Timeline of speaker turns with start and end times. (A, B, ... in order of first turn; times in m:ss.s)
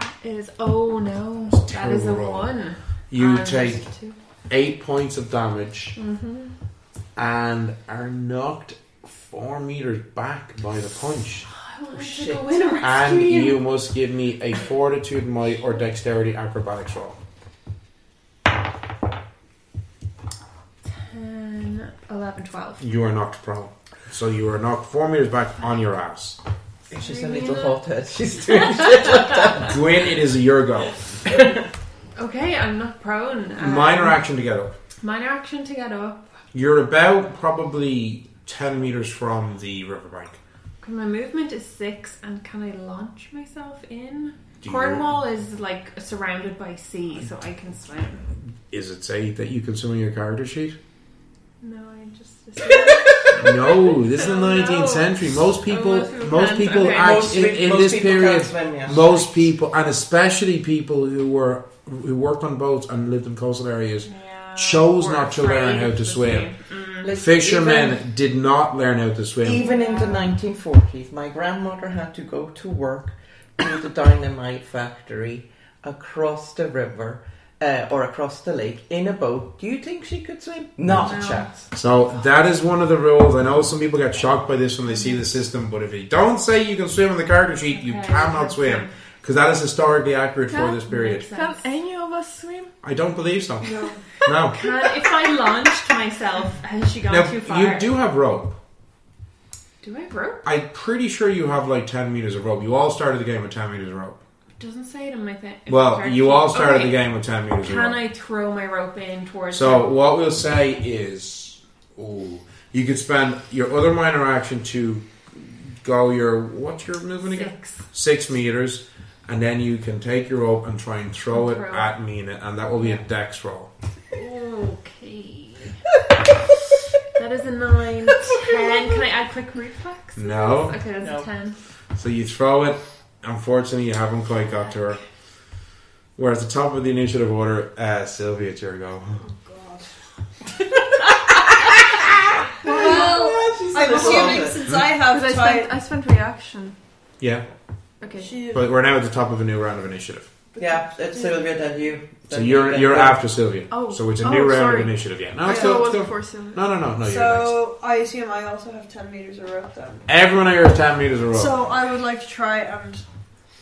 0:00.2-0:04.2 A
0:01.5-0:02.5 B
0:03.1-0:03.9 B
0:04.5-0:06.0 B
0:06.0-0:06.6 A
0:07.2-0:11.5 B
0:11.5-0:13.6 A
0:12.0-0:12.4 C
0:12.8-0:17.2 B
0:20.8-0:22.8 A
0:22.8-0:26.4 B
0:26.9-0:29.8 C
0:26.9-0:27.8 A
0:28.5-0:29.5 A
0:29.6-0:31.0 B
0:32.2-0:34.2 A
0:33.6-0:34.7 B
0:35.0-0:36.2 A
0:36.5-0:40.4 B
0:40.8-0:48.3 A
0:44.6-0:45.1 B
0:48.7-0:50.8 B
0:51.6-0:57.4 A
0:53.3-1:06.5 B
0:57.0-0:59.0 C
1:04.0-1:07.1 A
1:07.0-1:08.0 C
1:07.1-1:09.7 B
1:09.4-1:21.5 C
1:09.5-1:10.3 A
1:09.8-1:10.2 D
1:20.9-1:31.3 B
1:21.0-1:21.7 A
1:27.7-1:28.9 A
1:30.5-1:32.7 E
1:30.9-1:31.7 A
1:32.8-1:34.7 B
1:33.7-1:34.0 D
1:34.3-1:37.9 A
1:37.1-1:38.6 B
1:39.8-1:40.5 A
1:40.4-1:44.2 B
1:44.6-1:47.1 A
1:45.7-1:48.0 B
1:47.6-1:49.9 A
1:49.5-2:03.7 B
1:57.3-1:57.8 A
2:01.3-2:01.9 A
2:04.1-2:05.8 A
2:07.1-2:11.6 A
2:10.2-2:10.8 B
2:11.0-2:11.3 C
2:12.0-2:15.0 B
2:16.2-2:19.3 B
2:19.2-2:19.9 D
2:22.6-2:23.4 E
2:22.6-2:24.6 C
2:22.6-2:25.7 D
2:25.1-2:26.8 E
2:27.2-2:27.5 B
2:28.0-2:28.3 E
2:28.2-2:28.6 D
2:28.5-2:30.3 B
2:30.5-2:31.5 D
2:30.6-2:33.2 C
2:32.2-2:37.6 B
2:33.7-2:36.6 E
2:35.5-2:35.8 D
2:37.0-2:40.1 D
2:40.1-2:41.6 B
2:41.3-2:43.1 D